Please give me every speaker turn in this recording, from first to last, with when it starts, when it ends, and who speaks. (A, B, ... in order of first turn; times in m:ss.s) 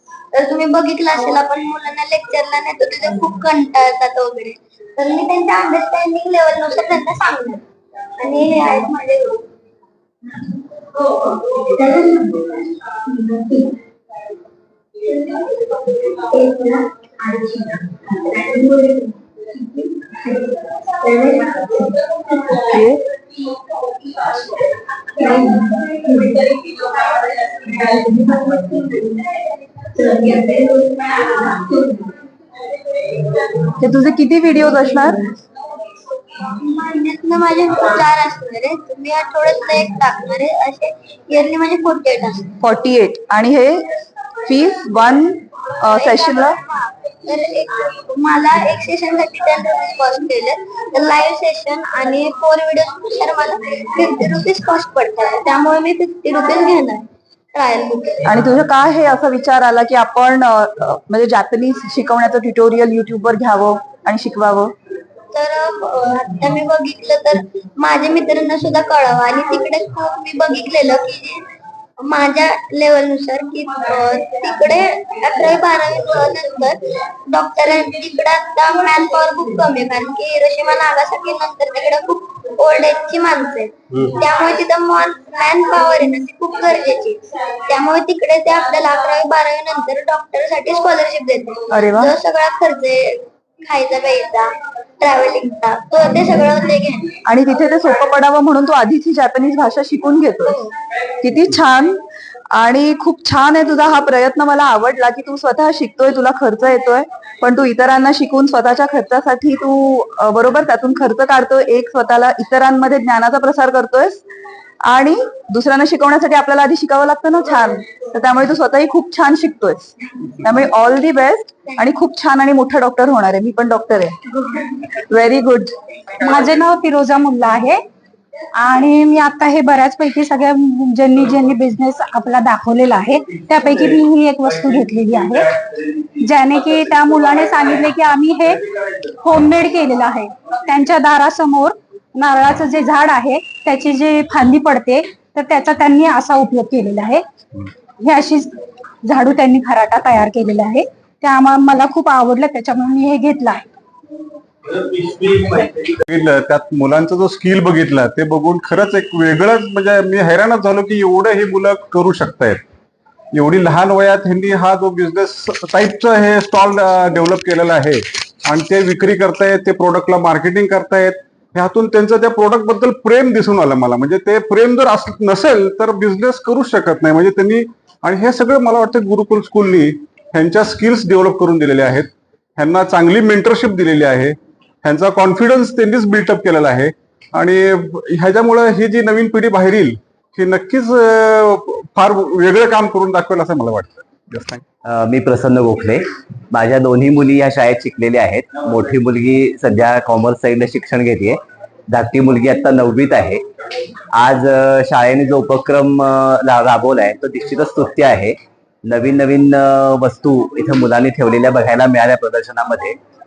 0:00.3-0:07.7 A
0:08.2-0:09.4 A
0:11.2-0:12.5 A
0:13.1-0:13.6 A
0:16.0-0:19.0 A
0:21.0-0:21.8 A
0:22.4-0:22.6 A
0:25.2-0:29.1 A
0:30.0-0:31.8 A
0:33.8-0:35.3 B
0:36.3-0:42.5 A
0:42.6-0:43.9 B
0:44.4-0:46.6 B
0:45.8-0:58.3 A
0:58.3-1:04.7 B
1:05.3-1:11.4 A
1:12.0-1:37.1 A
1:31.7-1:32.1 B
1:37.3-1:40.5 B
1:40.5-1:40.7 A
1:41.2-1:42.0 B
1:42.5-1:54.2 B
1:54.8-2:04.2 B
2:04.9-2:05.8 B
2:06.2-2:07.8 C
2:08.6-2:15.5 C
2:16.2-2:18.6 C
2:19.2-2:27.2 C
2:28.0-2:33.6 C
2:34.8-2:42.6 D
2:43.3-3:14.6 D
3:14.8-3:23.4 E
3:24.1-3:33.0 E